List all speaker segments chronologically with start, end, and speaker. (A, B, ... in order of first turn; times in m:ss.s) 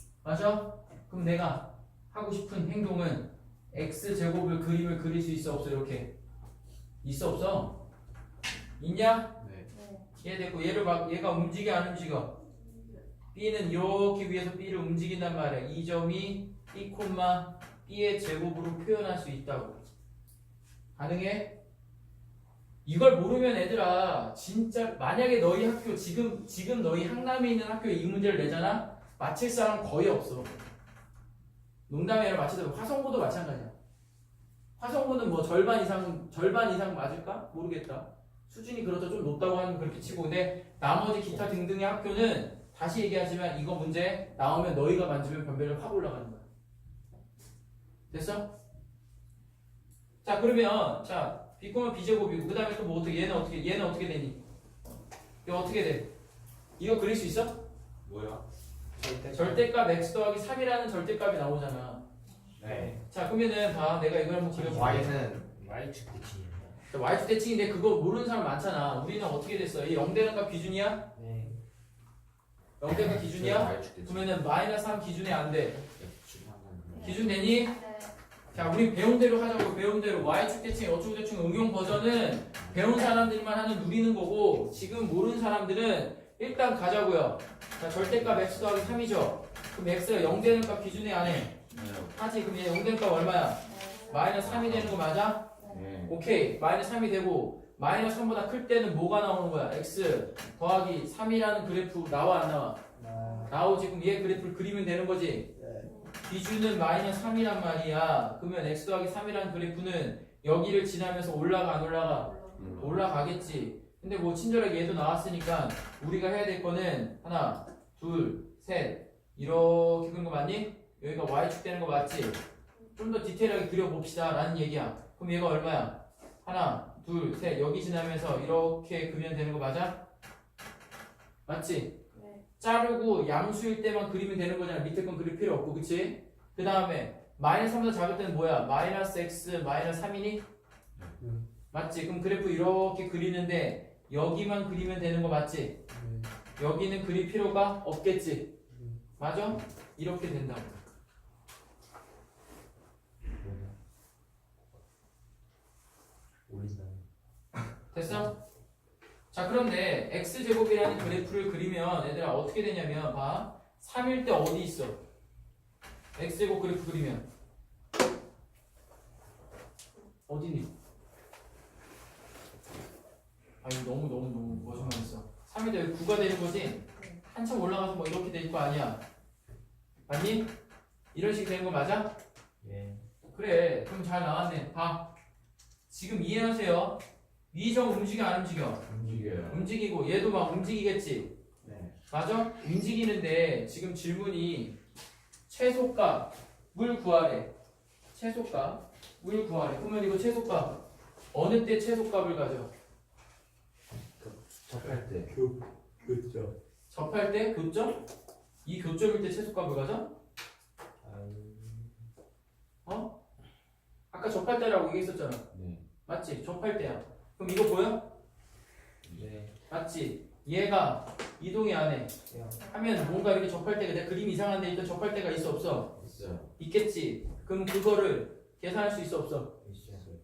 0:00.2-0:06.1 A
0:07.0-0:07.8 A
0:08.8-0:09.4 A
0:09.4-0:09.7 B
0:09.7-0:10.0 C
0:10.2-0:12.3 A
0:12.6-0:13.0 C
0:13.3-0:19.8 A
0:21.0-0:21.5 A
0:22.8-0:30.5 A
0:31.9-0:33.7 A
0:34.8-0:46.4 A
0:48.1-0:48.5 A
0:50.2-0:54.4 A
0:55.4-0:56.1 A
0:56.8-0:57.6 A
0:58.0-0:58.4 B
0:59.0-0:59.7 D
0:59.3-1:02.0 A
1:02.6-1:02.9 B
1:02.6-1:03.0 D
1:03.0-1:05.2 A
1:04.5-1:06.8 D
1:04.5-1:05.5 B
1:06.9-1:11.1 A
1:11.1-1:11.6 D
1:12.8-1:15.8 A
1:12.9-1:14.4 B
1:15.9-1:17.3 B
1:16.9-1:18.1 C
1:17.0-1:17.8 A
1:18.5-1:35.5 A
1:22.6-1:23.2 B
1:27.9-1:29.0 B
1:30.3-1:32.2 B
1:33.6-1:34.3 C
1:34.3-1:35.0 B
1:35.6-1:35.8 C
1:35.7-1:36.2 B
1:36.0-1:42.8 A
1:43.0-1:43.5 D
1:43.2-1:43.5 C
1:43.4-1:45.6 A
1:45.8-1:46.1 C
1:46.2-2:02.4 A
1:52.2-1:52.6 C
1:52.6-1:53.0 B
2:03.0-2:10.0 A
2:11.4-2:12.0 A
2:12.1-2:12.4 C
2:12.6-2:20.4 A
2:21.7-2:25.8 A
2:25.9-2:26.3 E
2:26.6-2:28.5 A
2:28.7-2:29.0 E
2:29.2-2:30.8 A
2:33.4-2:33.7 D
2:36.5-2:37.0 D
2:37.9-2:38.3 A
2:38.0-2:38.3 D
2:39.3-2:45.0 A
2:46.1-2:47.2 A
2:50.3-2:50.7 A
2:53.6-2:59.0 A
2:54.5-2:54.9 B
3:00.1-3:00.5 A
3:01.1-3:02.1 A
3:02.6-3:03.0 D
3:03.3-3:05.1 A
3:05.9-3:08.8 A
3:08.8-3:09.7 B
3:09.4-3:11.3 A
3:11.6-3:11.9 B
3:12.1-3:14.8 A
3:15.5-3:17.5 A
3:18.1-3:20.8 A
3:21.3-3:22.7 A
3:24.7-3:25.0 A
3:24.8-3:25.3 B
3:24.8-3:26.5 E
3:26.9-3:28.0 A
3:28.6-3:30.1 A
3:31.0-3:32.0 D
3:32.8-3:33.2 A
3:34.1-3:35.5 A
3:35.5-3:35.8 B
3:36.0-3:38.1 A
3:39.1-3:39.5 D
3:39.7-3:46.0 A
3:42.3-3:42.7 D
3:46.0-3:46.5 B
3:46.6-3:49.6 A
3:49.6-3:50.1 D